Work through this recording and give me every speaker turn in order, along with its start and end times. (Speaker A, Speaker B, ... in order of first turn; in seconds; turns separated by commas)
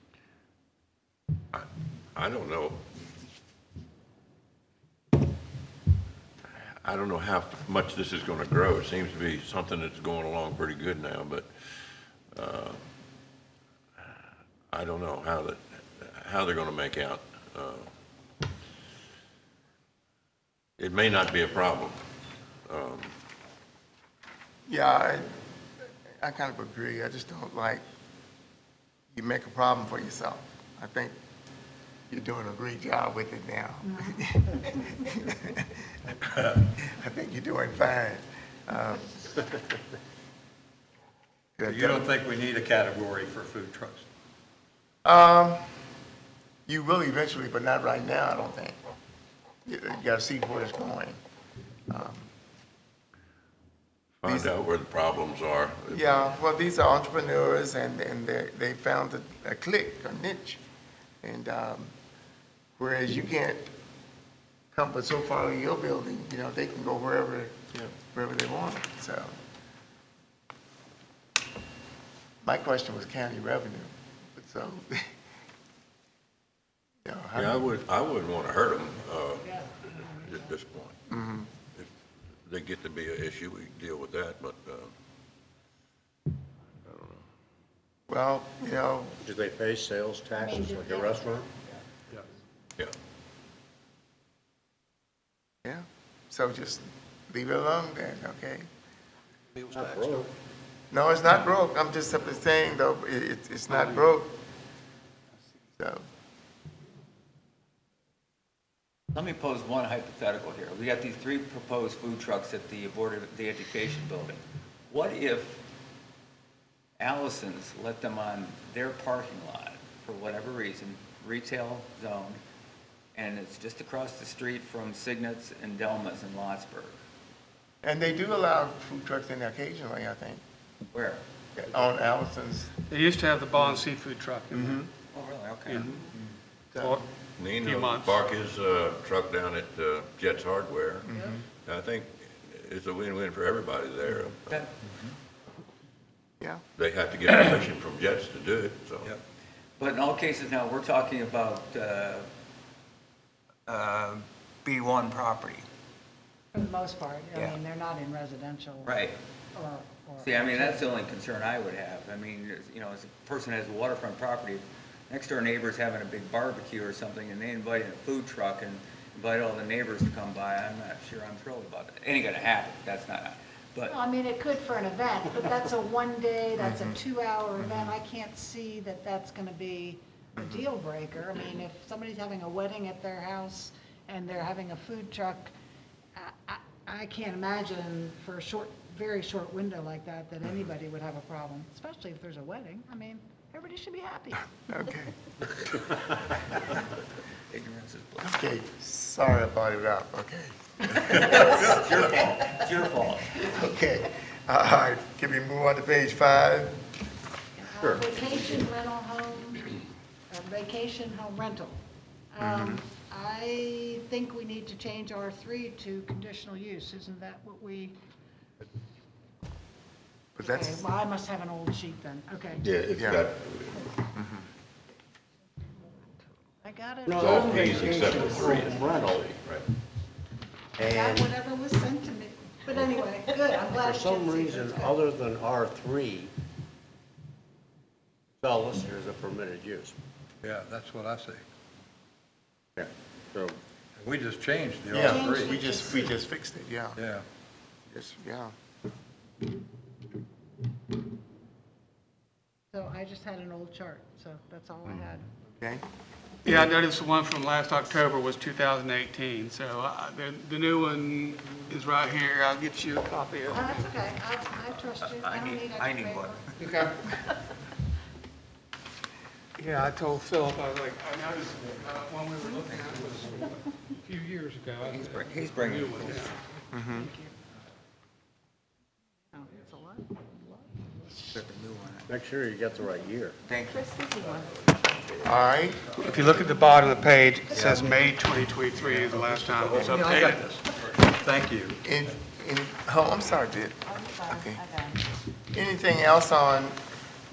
Speaker A: 1.5-2.8, Speaker A: 6.6-12.8, Speaker A: 14.7-17.9, Speaker A: 20.8-22.0, Speaker A: 22.7-23.2, Speaker B: 24.7-27.8, Speaker B: 29.1-31.2, Speaker B: 32.1-35.7, Speaker C: 33.9-34.9, Speaker B: 36.8-39.2, Speaker B: 41.6-42.1, Speaker D: 41.6-44.1, Speaker B: 45.0-45.6, Speaker B: 46.7-48.8, Speaker B: 49.6-51.2, Speaker B: 51.9-52.3, Speaker A: 54.2-56.2, Speaker B: 54.2-54.5, Speaker B: 55.9-60.6, Speaker B: 61.2-61.9, Speaker B: 62.8-63.7, Speaker B: 64.7-69.3, Speaker B: 72.4-75.1, Speaker B: 77.0-77.7, Speaker A: 77.4-81.0, Speaker B: 81.1-81.5, Speaker A: 82.5-84.9, Speaker B: 88.1-89.2, Speaker E: 89.2-91.5, Speaker C: 90.4-91.3, Speaker B: 95.7-98.7, Speaker E: 99.7-100.3, Speaker B: 100.9-104.3, Speaker B: 105.8-106.0, Speaker F: 109.1-115.6, Speaker F: 117.0-122.4, Speaker F: 123.2-127.0, Speaker B: 127.8-130.4, Speaker F: 130.9-131.2, Speaker B: 131.6-132.7, Speaker G: 132.9-134.8, Speaker B: 134.5-134.9, Speaker F: 135.1-135.9, Speaker G: 135.7-136.0, Speaker B: 136.7-137.0, Speaker G: 136.8-137.1, Speaker A: 137.4-141.1, Speaker G: 137.6-138.2, Speaker B: 141.1-141.4, Speaker A: 141.6-144.7, Speaker A: 146.8-149.1, Speaker F: 149.8-152.3, Speaker F: 153.7-155.7, Speaker C: 156.5-161.0, Speaker F: 158.8-159.2, Speaker F: 160.2-174.0, Speaker C: 173.9-185.5, Speaker B: 176.6-177.0, Speaker C: 186.2-194.5, Speaker B: 194.7-195.2, Speaker F: 197.5-198.4, Speaker B: 198.2-201.7, Speaker F: 201.1-203.4, Speaker B: 203.4-206.8, Speaker C: 207.6-209.7, Speaker E: 207.8-208.5, Speaker C: 210.3-211.8, Speaker C: 212.3-218.0, Speaker B: 212.4-212.8, Speaker B: 220.4-220.8, Speaker C: 220.4-222.7, Speaker A: 222.6-223.8, Speaker B: 223.0-223.3, Speaker C: 226.6-228.9, Speaker E: 227.1-229.2, Speaker A: 227.2-229.6, Speaker E: 230.8-231.3, Speaker C: 230.8-235.0, Speaker E: 233.7-236.3, Speaker E: 238.4-240.0, Speaker D: 240.4-241.4, Speaker E: 242.8-243.6, Speaker D: 244.0-245.6, Speaker B: 244.9-247.0, Speaker C: 245.0-246.1, Speaker D: 247.0-247.2, Speaker B: 247.9-248.5, Speaker C: 252.7-255.3, Speaker G: 256.4-263.7, Speaker C: 263.5-266.5, Speaker F: 265.1-266.5, Speaker G: 269.6-273.4, Speaker F: 272.6-273.5, Speaker G: 274.1-276.4, Speaker F: 274.8-276.3, Speaker B: 276.7-277.1, Speaker C: 276.9-277.3, Speaker C: 279.3-280.6, Speaker F: 281.3-282.1, Speaker E: 282.1-283.4, Speaker F: 283.5-284.1, Speaker B: 285.2-285.9, Speaker G: 286.0-290.5, Speaker D: 287.5-287.9, Speaker D: 288.8-291.8, Speaker B: 291.8-294.6, Speaker C: 293.9-295.1, Speaker B: 295.5-296.8